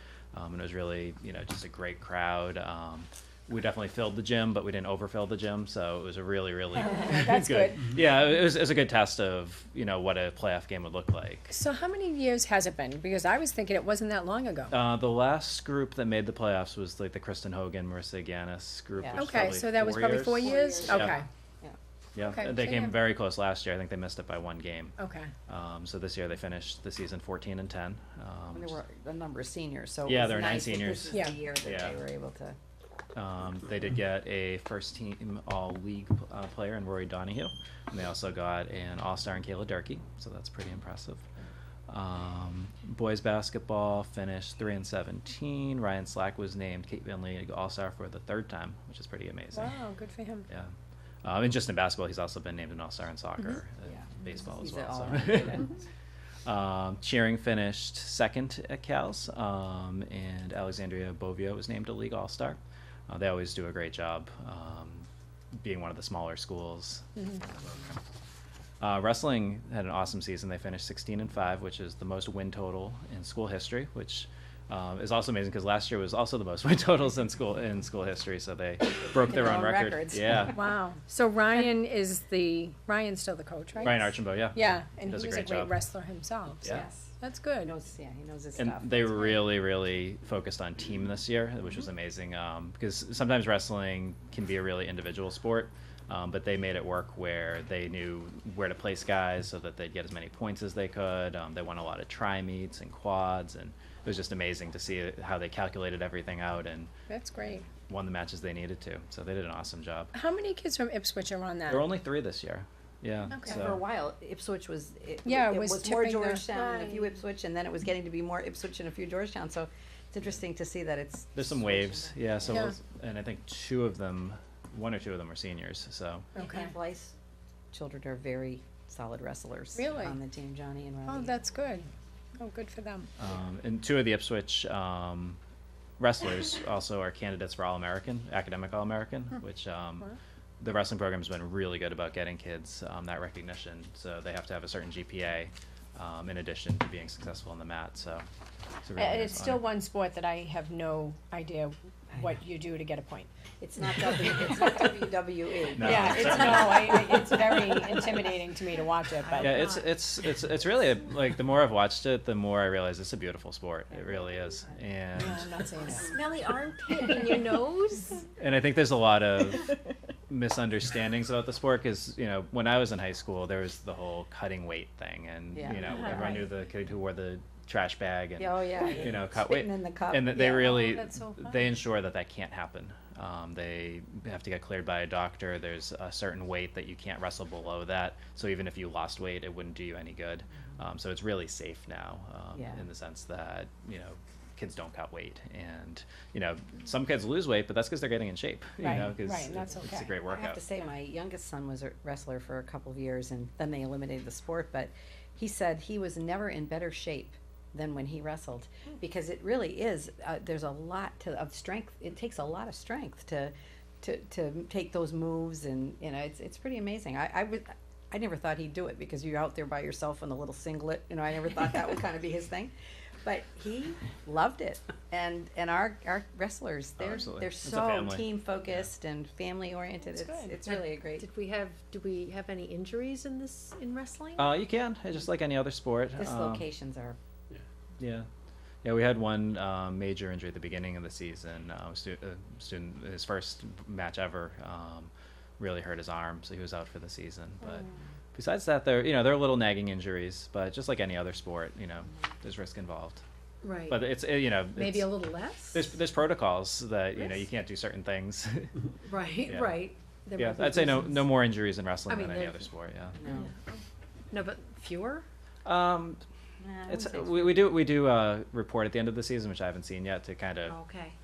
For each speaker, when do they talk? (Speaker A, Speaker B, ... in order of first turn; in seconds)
Speaker A: 0.3-11.5, 14.7-21.1, 22.1-25.0, 25.5-28.8, 30.1-32.0, 33.1-41.2, 41.9-49.7, 50.5-50.7, 51.2-55.7, 56.5-65.1, 65.6-68.0, 68.8-80.6, 83.8-85.8, 88.6-106.9, 107.9-110.1, 111.7-113.8, 121.4-126.3, 133.2-135.4, 136.0-148.3, 148.8-149.7, 155.8-157.0, 159.4-165.5, 168.4-169.8, 170.3-200.6, 227.0-228.3, 234.4-236.7, 238.0-238.3, 238.8-253.2, 253.9-258.7, 259.5-259.9, 260.4-263.2, 265.6-266.2, 266.9-270.8
Speaker B: 6.8-7.9, 11.5-14.7, 19.1-21.2, 22.2-23.0, 25.0-25.3, 31.1-31.4, 49.5-50.5, 80.5-87.7, 107.1-107.7, 110.1-111.9, 113.3-113.6, 115.2-116.5, 122.5-122.8, 126.3-126.7, 129.8-130.2, 131.1-133.1, 149.0-153.3, 155.8-159.8, 165.2-166.2, 167.1-167.5, 180.8-181.7, 198.8-200.2, 230.1-230.7, 231.2-231.8
Speaker C: 19.0-19.5, 20.3-21.8, 28.5-32.6, 53.9-55.7, 79.0-80.6, 86.7-89.2, 113.4-122.6, 126.4-127.2, 127.7-131.3, 153.6-158.2, 166.1-167.4, 175.6-176.3, 178.4-180.9, 192.5-192.8, 200.3-231.3, 236.2-237.2, 263.2-263.5, 266.6-267.8
Speaker D: 116.5-117.1, 166.1-168.2, 231.3-234.4, 253.6-254.0, 254.8-255.8, 259.1-261.2, 262.1-262.7, 263.3-263.8, 264.3-265.2